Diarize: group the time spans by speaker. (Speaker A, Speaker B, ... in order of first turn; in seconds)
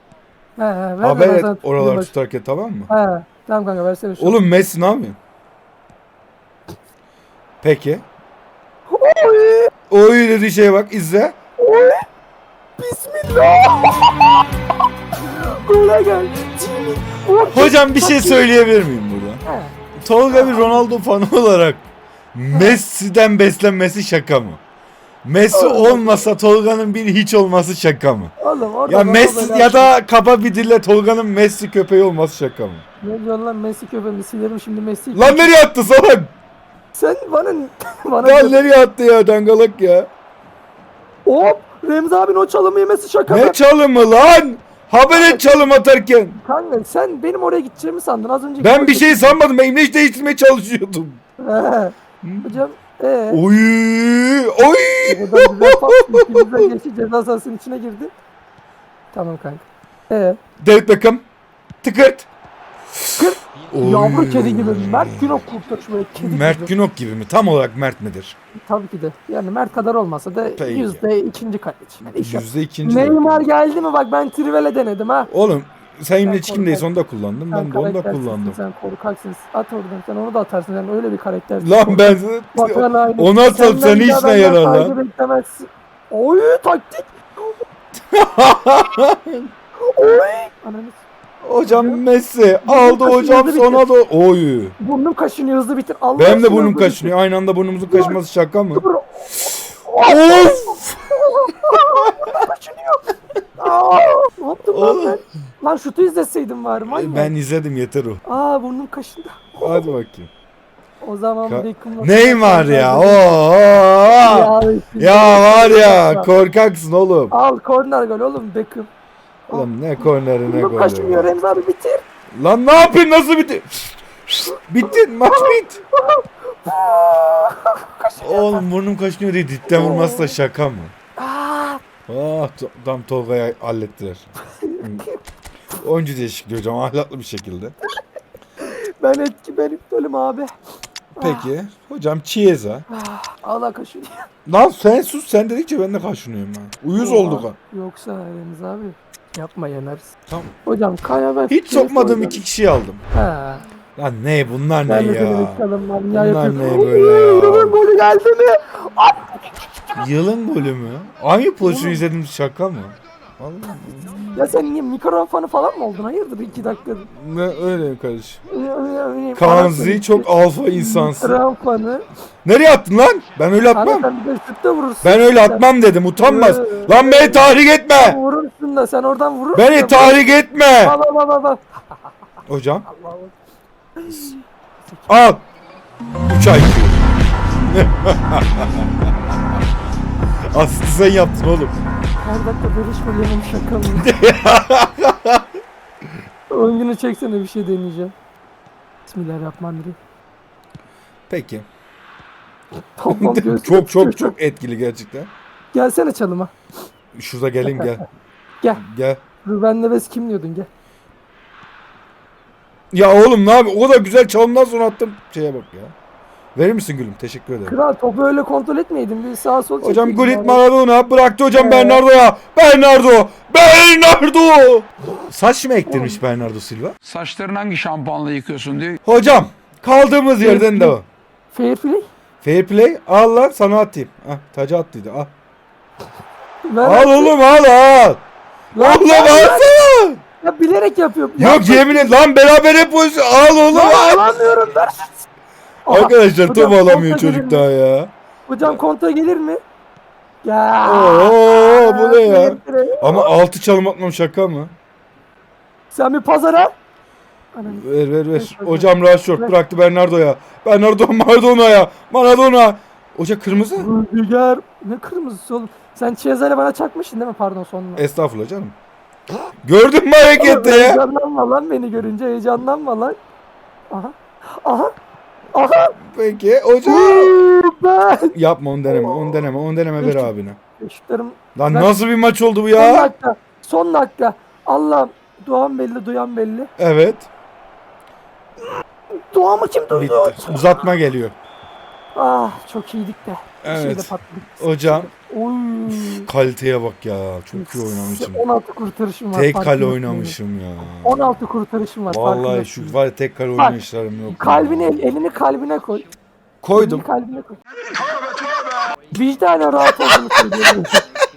Speaker A: 0.6-2.1, 2.9-4.4, 8.9-9.7, 11.6-12.0, 12.8-14.3, 15.2-18.5, 19.4-19.7, 20.3-20.8, 22.5-22.8, 25.5-26.3, 28.4-29.9, 33.0-35.5, 36.9-38.6, 41.2-43.6, 45.1-45.7, 46.4-49.4, 51.4-53.4, 55.0-58.1, 59.1-60.4, 63.2-66.7, 68.6-75.3, 76.2-76.9, 77.5-87.6, 89.8-91.0, 91.6-92.0, 92.6-93.8, 94.8-97.1, 97.9-98.2, 98.7-107.3, 108.2-109.9, 111.0-113.3, 114.1-116.3, 117.3-118.9, 119.5-122.0, 124.8-128.6, 129.7-130.3, 131.2-131.8, 134.5-135.2, 138.6-140.5, 141.2-141.5, 142.9-144.3, 146.9-150.1, 150.6-152.4, 153.1-153.6, 154.9-159.9, 161.6-162.0, 164.3-167.1, 168.5-172.0, 173.7-181.6, 182.9-183.3, 184.0-185.0, 192.2-194.1, 196.5-198.1, 199.1-199.9, 203.0-204.3, 205.7-206.5, 207.6-207.9, 209.4-210.7, 217.7-220.6, 221.5-222.0, 225.9-226.2, 230.4-230.9, 231.5-232.1, 236.7-237.3, 238.7-239.7, 240.4-242.1, 243.7-245.2, 245.8-247.6, 248.5-249.6, 250.4-253.3, 255.9-256.7, 257.5-257.8, 258.3-259.5, 263.8-268.0, 270.4-273.2, 273.9-274.9, 275.5-275.9, 276.8-278.3, 278.9-279.4, 280.0-281.9, 282.7-286.7, 289.3-290.8, 292.1-296.3, 297.6-300.4, 301.0-302.9, 304.3-306.1, 306.7-307.6, 309.1-311.0
Speaker B: 1.0-2.9, 4.2-5.2, 7.6-8.1, 9.9-11.4, 17.5-19.4, 20.0-24.6, 25.2-28.3, 28.9-32.8, 35.1-36.3, 38.2-40.1, 43.3-46.4, 48.6-51.2, 52.2-52.5, 53.3-56.7, 60.6-61.2, 61.8-62.3, 63.0-65.3, 66.2-68.3, 70.5-71.0, 72.2-73.5, 75.3-78.6, 81.6-85.0, 88.0-89.5, 91.4-94.7, 96.2-98.8, 100.0-102.4, 104.7-105.2, 106.9-108.2, 109.6-110.3, 111.5-117.3, 119.5-121.3, 122.4-125.8, 128.2-130.9, 132.1-134.3, 134.8-135.0, 135.8-137.8, 141.2-142.8, 144.4-147.5, 151.5-153.0, 154.0-157.8, 159.9-164.5, 167.1-168.4, 169.3-171.4, 172.4-174.1, 175.0-178.2, 179.5-180.9, 182.5-182.8, 185.1-185.4, 186.3-187.0, 187.6-188.9, 190.5-191.8, 193.9-195.4, 201.3-201.7, 203.1-205.3, 207.2-208.0, 208.8-209.2, 212.9-215.9, 216.5-217.7, 219.8-226.9, 229.0-231.0, 232.4-235.3, 236.8-238.2, 238.8-240.2, 241.4-244.4, 245.9-248.8, 250.8-254.7, 257.6-263.9, 268.0-268.7, 269.6-271.0, 276.0-277.4, 278.3-280.6, 281.6-283.1, 286.8-287.3, 289.9-291.3, 293.6-295.1, 296.1-298.4, 299.3-301.4, 302.1-305.2, 306.6-307.1, 309.8-310.9
Speaker C: 227.0-229.0